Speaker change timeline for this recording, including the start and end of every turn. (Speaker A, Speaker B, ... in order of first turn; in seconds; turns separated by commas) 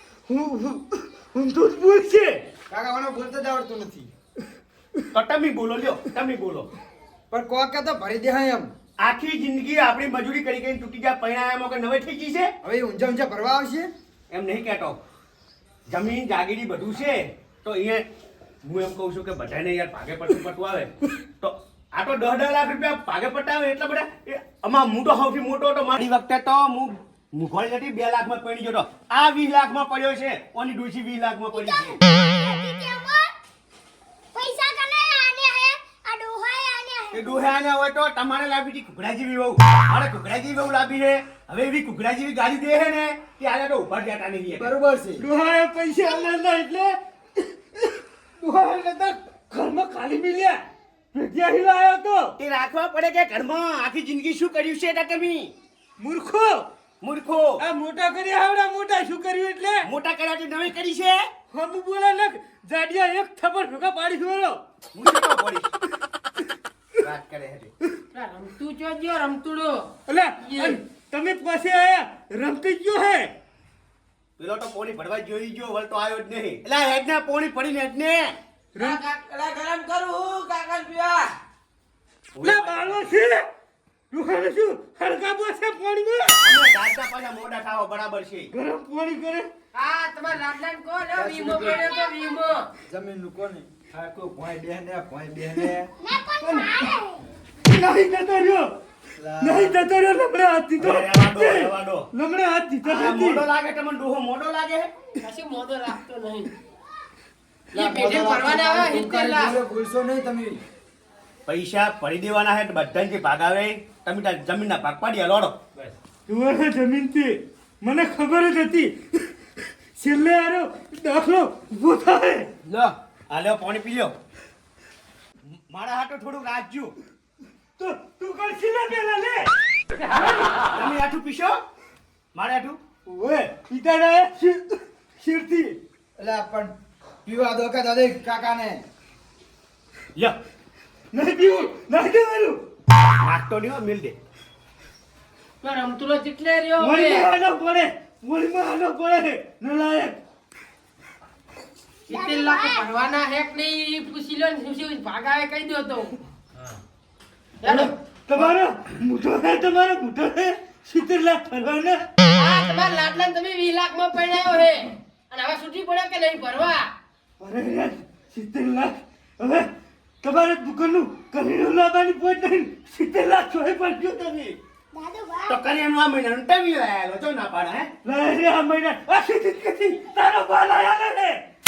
Speaker A: 0.3-2.4, Speaker B: 2.7-4.1, Speaker C: 5.1-6.7, Speaker B: 7.3-8.7, Speaker C: 9.0-12.5, Speaker B: 12.6-13.9, Speaker C: 14.3-15.0, Speaker C: 15.9-18.1, Speaker C: 18.6-32.0, Speaker D: 31.5-33.3, Speaker D: 34.4-37.5, Speaker C: 37.1-44.7, Speaker B: 44.5-45.3, Speaker A: 45.2-47.0, Speaker A: 47.8-50.6, Speaker A: 51.1-52.4, Speaker C: 52.4-55.5, Speaker A: 56.0-56.7, Speaker C: 57.0-57.6, Speaker A: 57.6-59.9, Speaker C: 59.8-61.3, Speaker A: 61.5-64.6, Speaker C: 64.9-65.7, Speaker C: 67.0-67.7, Speaker E: 68.1-70.8, Speaker A: 70.1-73.3, Speaker C: 74.4-78.4, Speaker E: 78.8-81.3, Speaker C: 82.3-83.0, Speaker A: 82.4-83.4, Speaker A: 84.1-86.6, Speaker C: 86.4-88.5, Speaker A: 88.5-89.5, Speaker E: 89.7-92.7, Speaker B: 91.2-91.9, Speaker B: 92.9-95.9, Speaker D: 96.1-97.2, Speaker A: 96.4-96.9, Speaker A: 97.7-98.7, Speaker B: 99.2-99.8, Speaker A: 99.4-103.5, Speaker C: 100.8-102.1, Speaker C: 102.8-104.9, Speaker E: 105.2-106.5, Speaker E: 107.7-109.6, Speaker B: 107.7-110.6, Speaker C: 111.5-115.6, Speaker A: 115.8-118.9, Speaker A: 120.0-122.5, Speaker C: 122.7-124.2, Speaker C: 125.5-126.9, Speaker A: 127.8-129.5, Speaker A: 130.1-130.4, Speaker C: 130.7-131.6, Speaker C: 132.3-132.8, Speaker A: 133.1-135.8, Speaker B: 136.2-136.7, Speaker B: 137.2-138.8, Speaker A: 141.1-142.6, Speaker C: 143.2-144.2, Speaker E: 145.6-147.3, Speaker A: 146.8-150.2, Speaker E: 152.1-156.2, Speaker E: 157.6-158.5, Speaker A: 157.6-162.1, Speaker E: 162.3-166.9, Speaker A: 167.4-169.7, Speaker A: 170.2-174.6, Speaker D: 174.9-175.6, Speaker C: 175.5-177.9, Speaker A: 178.0-181.4